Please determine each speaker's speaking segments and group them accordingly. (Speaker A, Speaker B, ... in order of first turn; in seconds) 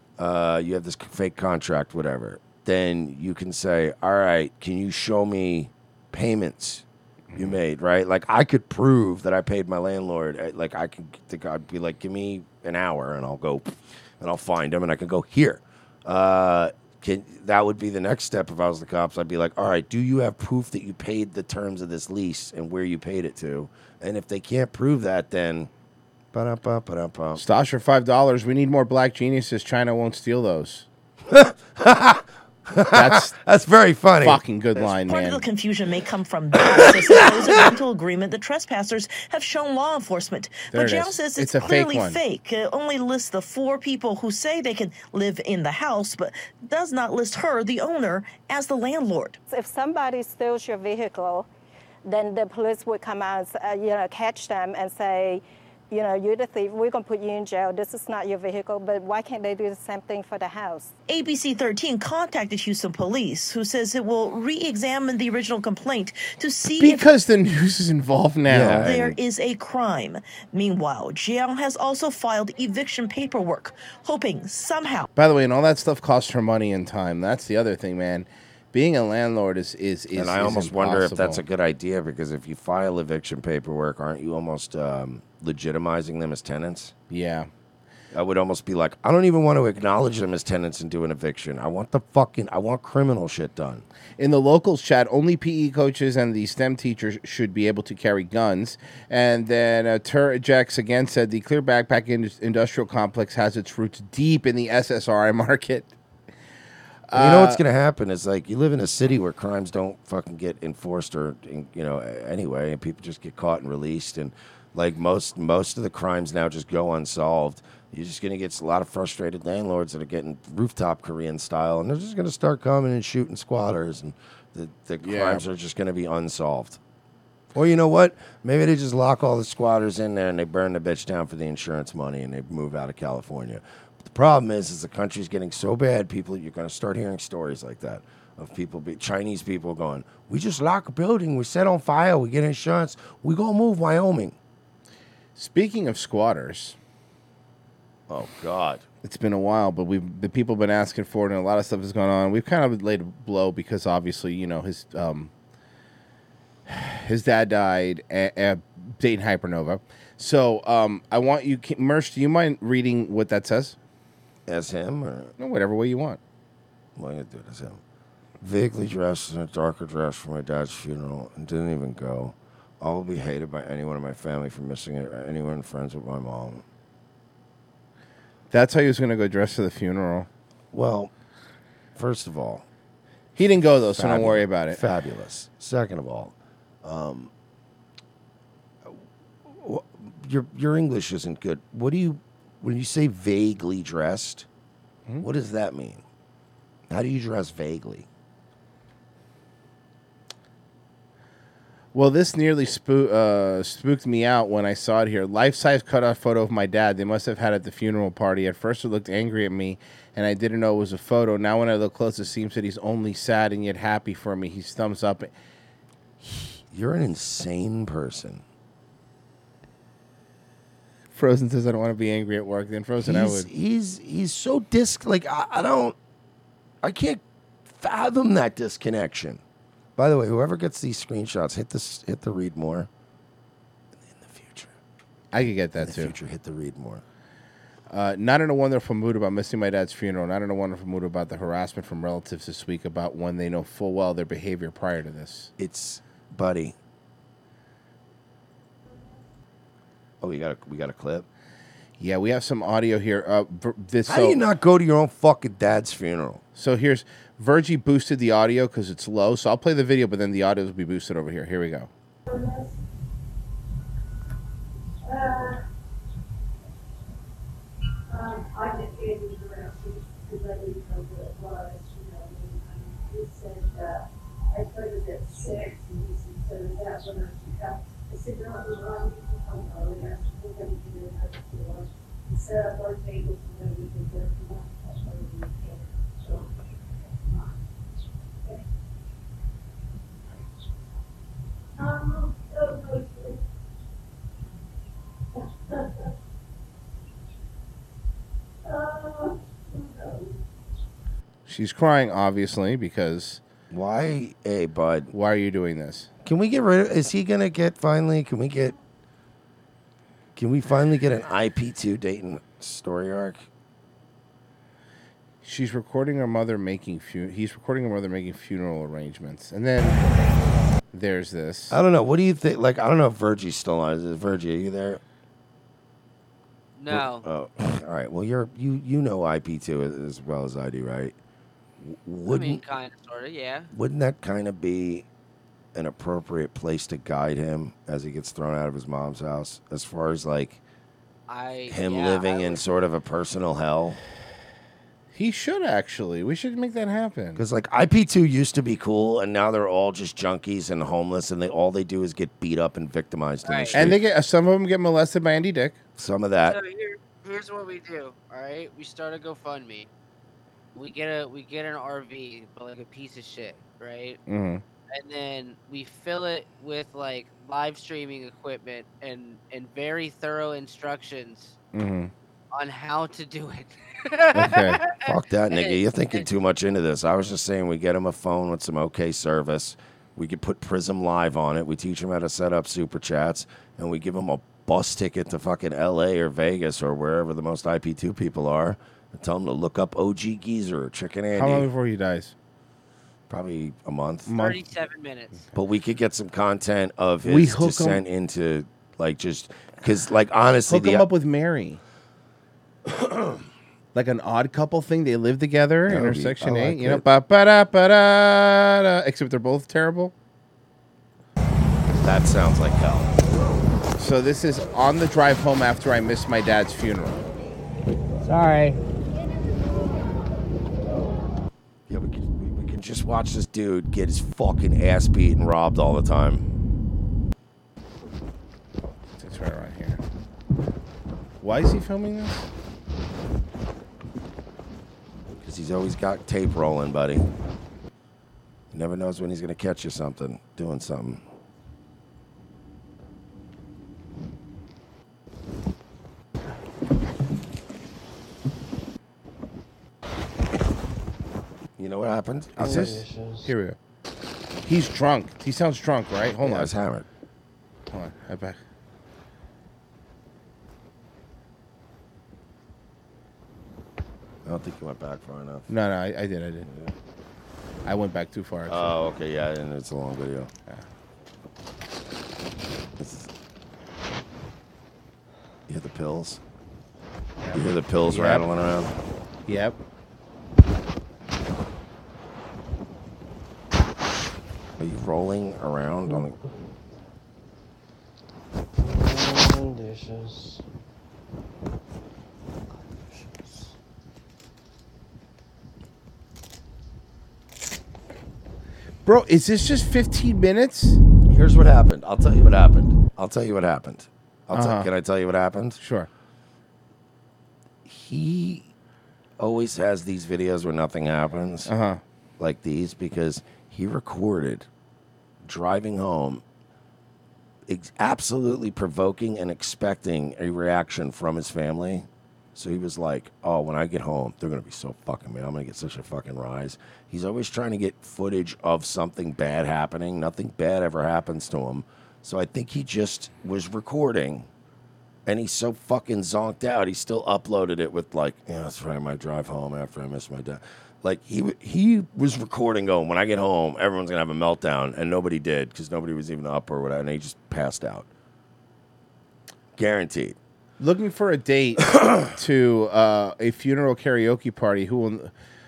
Speaker A: 0.2-6.8, 7.4-25.7, 26.3-27.4, 31.3-34.4, 36.7-37.5, 68.5-69.2, 80.1-86.9, 88.1-93.9, 107.1-126.8, 127.5-144.4, 148.1-148.8, 164.5-165.3, 167.0-167.8, 168.4-176.6, 180.7-181.1, 181.9-182.7, 183.9-187.3, 188.8-194.5, 195.2-196.0, 196.9-198.1, 216.2-218.4, 223.0-226.0, 226.8-229.4, 230.0-232.9, 233.9-234.7, 235.8-237.0, 245.6-246.8, 250.2-251.3, 254.1-256.4, 303.7-305.1, 306.2-308.8, 310.4-313.5, 321.7-325.0, 326.9-331.2, 331.8-332.6, 333.7-335.1, 335.7-340.6, 341.7-344.0, 347.4-354.0, 356.0-356.6, 375.0-391.7, 393.3-394.3, 395.5-401.1, 402.9-403.4, 405.9-407.0, 411.9-413.2, 421.9-426.5, 435.4-437.3, 438.7-441.2, 451.8-453.1, 456.4-457.1, 464.4-465.7, 466.6-466.9, 468.7-470.5, 473.0-473.3, 475.7-476.4, 477.5-478.9, 484.8-486.4, 501.3-505.8, 507.9-508.7, 509.4-511.7, 512.4-514.7, 515.5-516.4, 517.7-534.5, 535.3-548.1, 549.8-550.4, 551.9-552.2
Speaker B: 27.4-30.9, 32.9-33.4, 34.2-35.4, 40.7-42.2, 66.8-69.0, 75.2-81.4, 87.1-87.5, 94.2-105.9, 107.1-107.6, 125.0-125.4, 145.4-146.8, 149.0-155.3, 156.7-163.8, 165.4-166.2, 178.5-180.3, 183.4-184.8, 201.9-215.3, 221.1-223.5, 235.3-236.2, 237.9-245.5, 252.0-254.4, 256.6-261.9, 301.5-303.4, 305.1-306.1, 315.4-320.0, 320.9-321.8, 345.1-347.4, 353.7-355.8, 364.3-364.6, 371.8-372.1, 374.4-374.8, 391.3-392.3, 397.2-398.0, 400.7-401.8, 403.9-410.1, 414.0-417.2, 429.2-430.0, 431.4-432.5, 452.6-453.8, 454.6-456.7, 457.9-458.6, 465.7-466.7, 467.9-469.0, 477.4-478.5, 479.5-479.8, 499.1-501.0, 504.5-504.9, 505.8-506.1, 511.7-512.0, 550.8-555.3
Speaker C: 34.9-49.4, 61.1-67.0, 68.8-75.1
Speaker D: 49.5-51.5, 52.0-60.9
Speaker E: 262.3-262.8, 265.1-265.6, 268.1-287.6, 288.4-288.7, 291.8-293.4, 295.3-296.1, 298.6-300.4
Speaker F: 326.8-327.2, 332.3-333.7, 341.3-342.6, 353.4-353.8, 356.5-359.9, 360.8-364.2, 364.9-371.6, 372.5-376.3, 394.3-395.4
Speaker G: 418.2-418.8, 452.6-453.5, 488.8-490.6, 492.7-493.7